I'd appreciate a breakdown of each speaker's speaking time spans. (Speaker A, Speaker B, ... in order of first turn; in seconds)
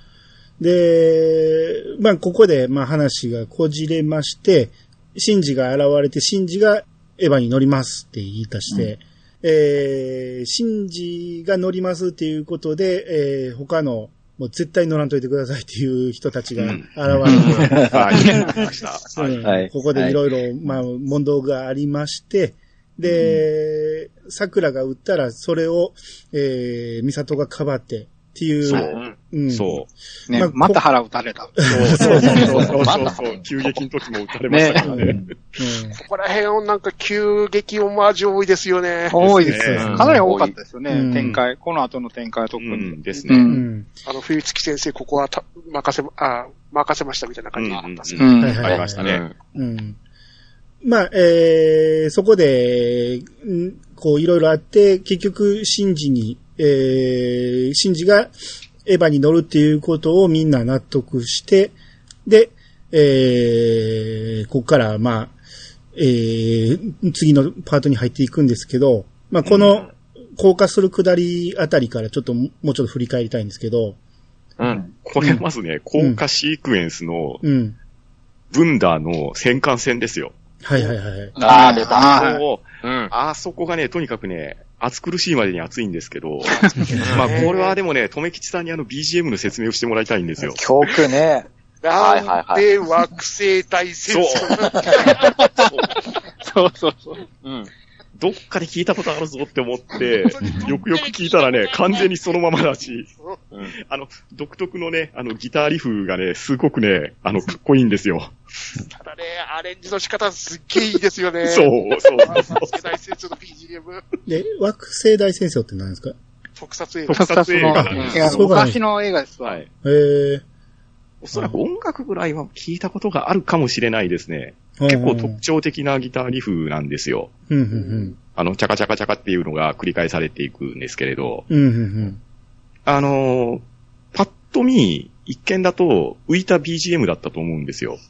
Speaker A: 0.6-18.0, 19.1-30.8, 31.6-32.4, 34.8-36.0, 39.5-40.2, 40.9-41.4, 43.5-43.9, 48.4-49.0, 49.5-50.0, 50.8-58.3, 58.8-61.7, 62.2-65.3, 65.9-74.0, 77.4-77.8, 80.6-81.3, 86.9-87.1, 114.3-116.1, 118.2-118.8, 119.8-120.4, 121.3-121.6, 124.8-125.4, 127.5-128.1, 131.5-132.2
Speaker B: 16.6-16.9, 17.4-19.5, 28.6-28.9, 29.5-29.9, 31.6-35.3, 39.2-40.1, 42.6-43.5, 47.5-49.2, 69.4-69.7, 75.0-77.4, 78.5-80.3, 81.7-90.6, 94.1-94.9, 98.2-103.1, 103.8-108.3, 111.4-112.8, 117.1-118.5, 121.2-127.3, 128.3-131.4, 132.8-133.6, 134.1-138.0
Speaker C: 17.3-18.6, 30.3-32.3, 34.5-34.9, 39.1-43.6, 48.2-48.6, 81.4-82.4, 86.5-86.9, 95.2-95.7, 96.4-97.2, 117.1-119.6
Speaker D: 17.3-18.2, 19.4-20.2, 23.1-23.4, 32.3-33.1, 35.0-35.3, 81.5-81.9, 90.4-91.5
Speaker E: 28.7-29.1, 32.0-33.8, 39.7-40.5, 48.6-49.3, 74.6-74.8, 81.3-82.3, 82.8-83.1, 87.0-87.4, 92.0-92.6, 97.4-97.7
Speaker F: 35.9-39.3, 44.0-48.4, 87.1-87.8, 91.8-95.6, 100.0-102.1, 108.8-114.0, 116.6-117.8